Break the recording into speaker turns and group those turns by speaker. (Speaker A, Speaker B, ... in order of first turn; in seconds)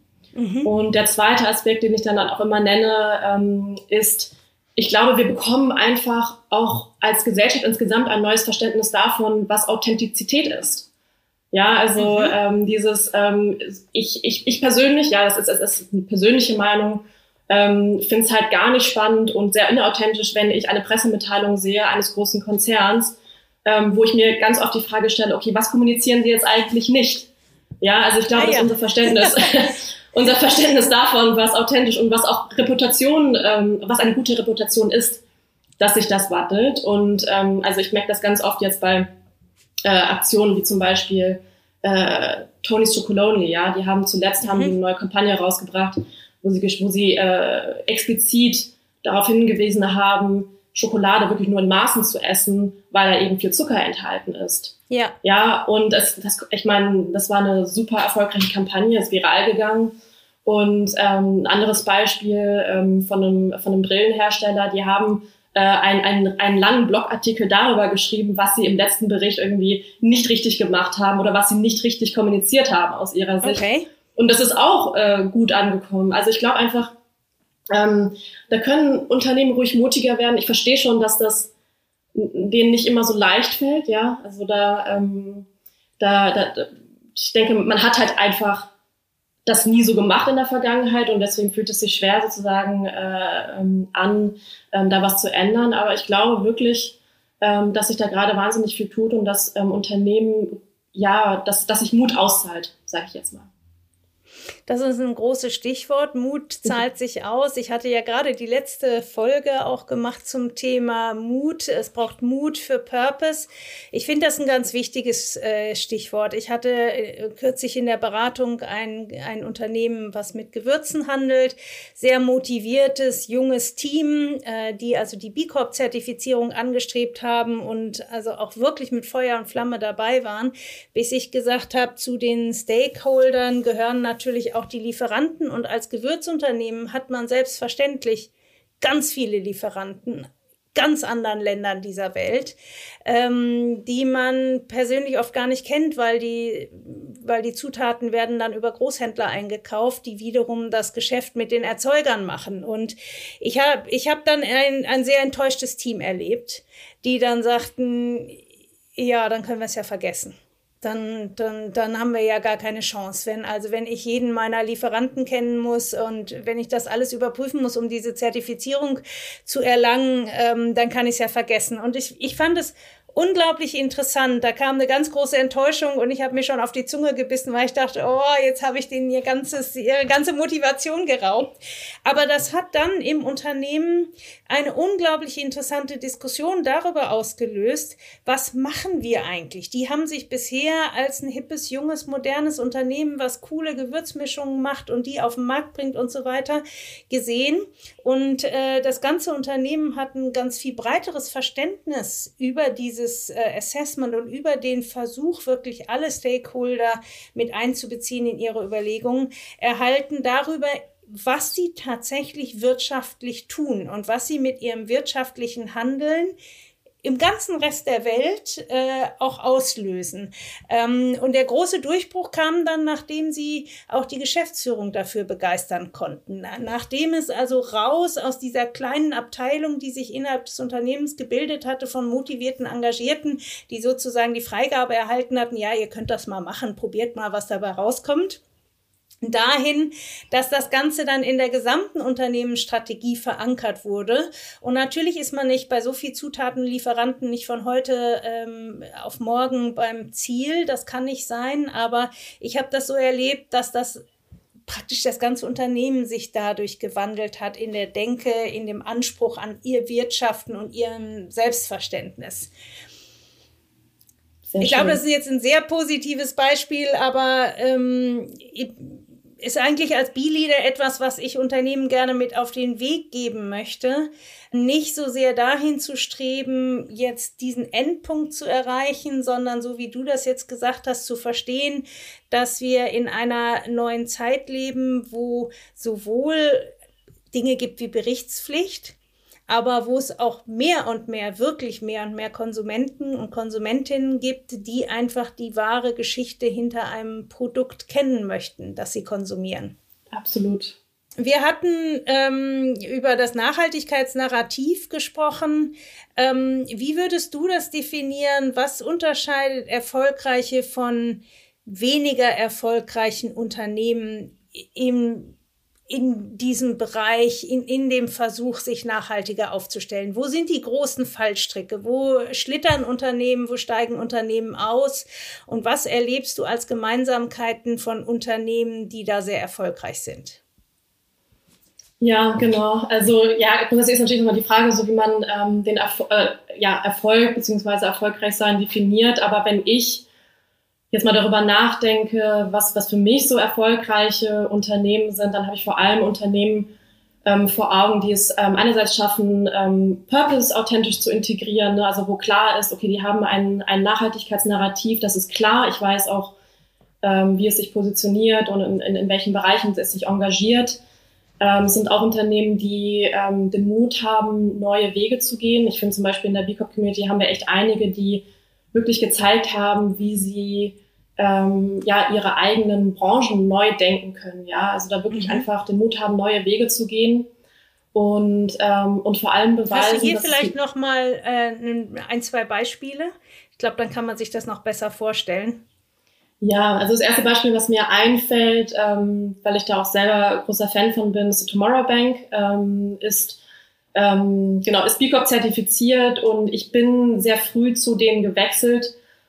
Speaker A: 0.3-0.7, 12.0-12.3, 28.3-29.5, 44.4-44.7, 54.9-55.1, 73.4-73.9, 104.7-138.3, 138.8-158.4, 159.0-181.5, 182.0-216.3, 217.0-238.4, 239.2-254.0, 254.7-262.5, 264.6-286.7, 287.3-288.9, 289.5-299.7, 301.2-315.4, 315.9-330.4, 375.1-375.4, 379.7-385.6
Speaker B: 0.6-10.9, 11.5-27.3, 27.8-35.2, 35.8-39.1, 39.8-59.9, 60.4-76.9, 77.7-81.5, 82.1-85.5, 86.0-88.7, 89.5-103.5, 264.5-265.0, 300.1-300.8, 332.0-340.1, 340.9-346.7, 347.2-356.3, 357.0-360.8, 361.4-377.3, 377.9-380.5, 386.4-393.4, 393.9-398.9